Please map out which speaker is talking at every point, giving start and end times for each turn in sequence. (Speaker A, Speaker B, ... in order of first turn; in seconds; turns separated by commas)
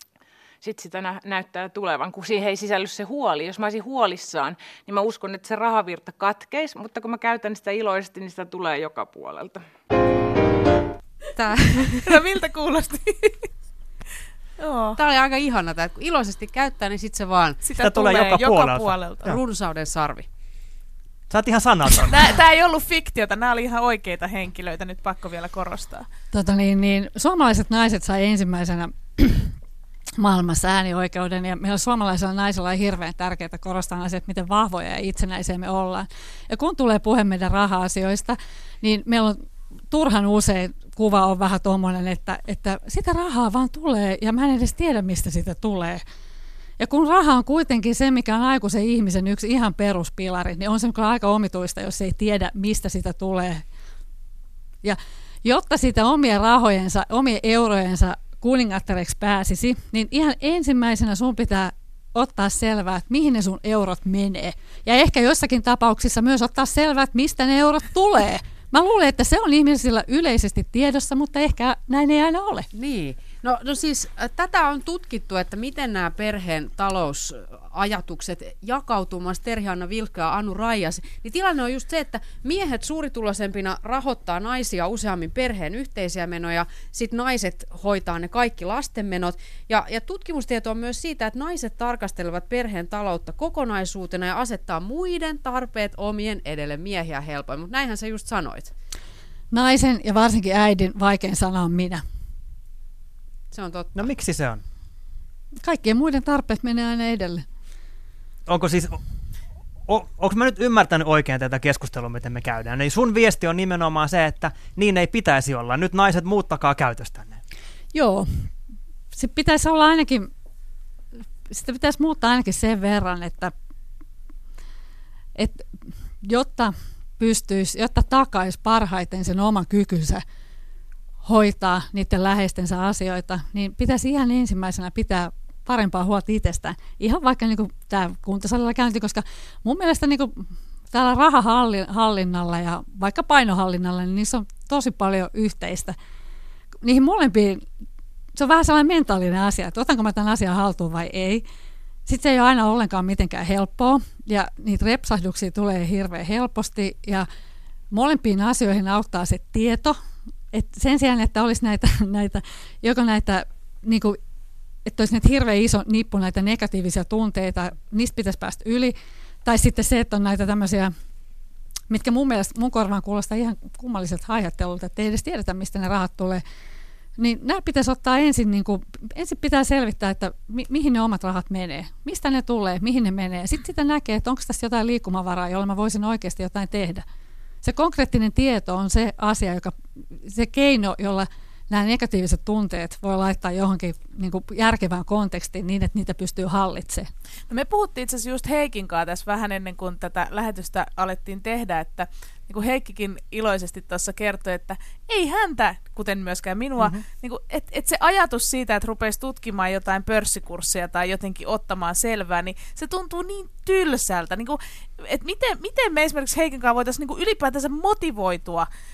Speaker A: 0.6-9.6, Speaker B: 11.3-12.2, Speaker C: 11.9-13.5, Speaker C: 14.6-15.0, Speaker B: 15.0-17.6, Speaker C: 17.6-19.4, Speaker D: 17.8-19.4, Speaker B: 19.2-20.2, Speaker D: 21.3-22.3, Speaker C: 22.1-26.1, Speaker E: 26.3-29.5, Speaker E: 30.2-46.0, Speaker E: 46.8-53.6, Speaker E: 54.8-72.7, Speaker B: 72.7-98.7, Speaker E: 99.5-102.0, Speaker B: 103.5-104.0, Speaker D: 103.9-104.6, Speaker E: 105.6-107.4, Speaker D: 108.5-109.0, Speaker D: 109.9-117.4, Speaker E: 117.9-118.5, Speaker E: 119.1-120.3, Speaker E: 121.5-123.5, Speaker E: 125.3-125.7, Speaker E: 126.2-130.2, Speaker E: 131.2-145.9, Speaker E: 146.8-147.6, Speaker E: 148.3-151.4, Speaker E: 152.1-157.3, Speaker E: 157.9-160.0, Speaker E: 160.5-164.2, Speaker E: 164.8-168.9, Speaker E: 169.4-170.9, Speaker E: 171.9-176.4, Speaker E: 177.2-187.0, Speaker E: 187.6-197.1, Speaker C: 197.5-218.7